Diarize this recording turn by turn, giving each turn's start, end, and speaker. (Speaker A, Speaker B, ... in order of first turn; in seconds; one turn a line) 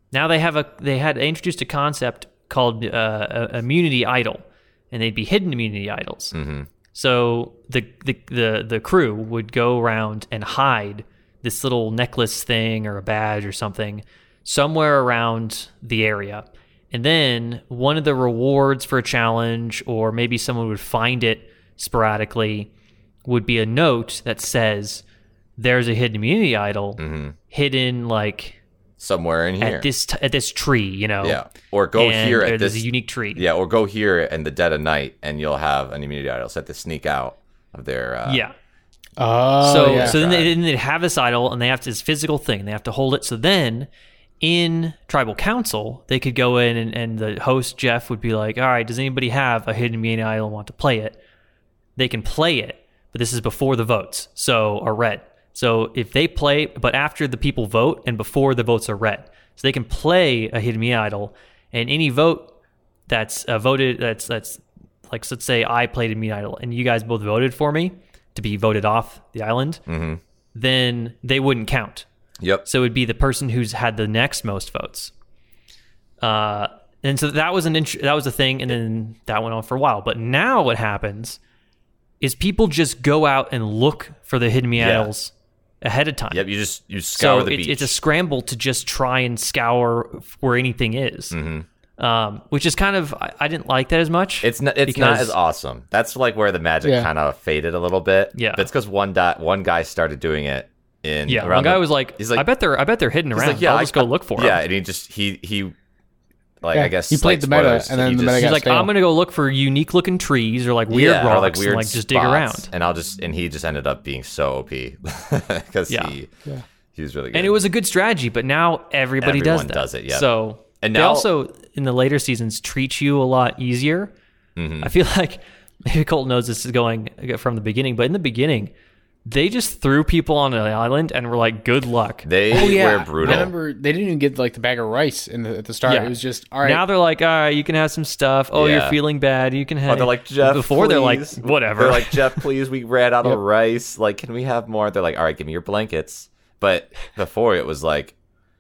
Speaker A: 0.1-6.4
Speaker B: 6.3-6.7
Speaker A: 6.9-22.7
Speaker A: 23.2-25.0
Speaker A: 25.6-28.6
Speaker B: 27.0-27.4
Speaker B: 29.0-29.9
Speaker A: 29.6-31.4
Speaker B: 31.2-38.4
Speaker A: 31.9-33.5
Speaker A: 38.3-38.5
Speaker C: 39.2-40.2
Speaker A: 39.6-43.9
Speaker B: 39.9-40.6
Speaker A: 44.4-51.2
Speaker A: 52.0-62.5
Speaker A: 63.1-69.8
Speaker B: 69.9-70.2
Speaker A: 70.5-72.1
Speaker B: 72.4-72.7
Speaker A: 72.7-75.1
Speaker A: 76.2-81.4
Speaker A: 82.2-86.4
Speaker B: 84.8-85.1
Speaker B: 86.3-88.0
Speaker A: 87.2-91.4
Speaker B: 91.3-91.7
Speaker A: 92.0-95.3
Speaker B: 94.4-102.5
Speaker C: 96.8-97.1
Speaker A: 98.3-98.7
Speaker A: 101.3-104.6
Speaker B: 103.3-105.7
Speaker B: 106.6-108.5
Speaker C: 106.7-108.9
Speaker A: 108.4-112.7
Speaker B: 110.9-116.3
Speaker A: 115.9-116.2
Speaker B: 117.0-117.6
Speaker A: 117.3-124.1
Speaker B: 119.2-120.3
Speaker B: 120.8-121.3
Speaker B: 124.6-124.9
Speaker A: 124.8-128.7
Speaker A: 129.3-132.3
Speaker B: 132.2-133.5
Speaker C: 132.5-136.8
Speaker A: 135.8-142.5
Speaker B: 138.5-139.0
Speaker B: 139.9-148.1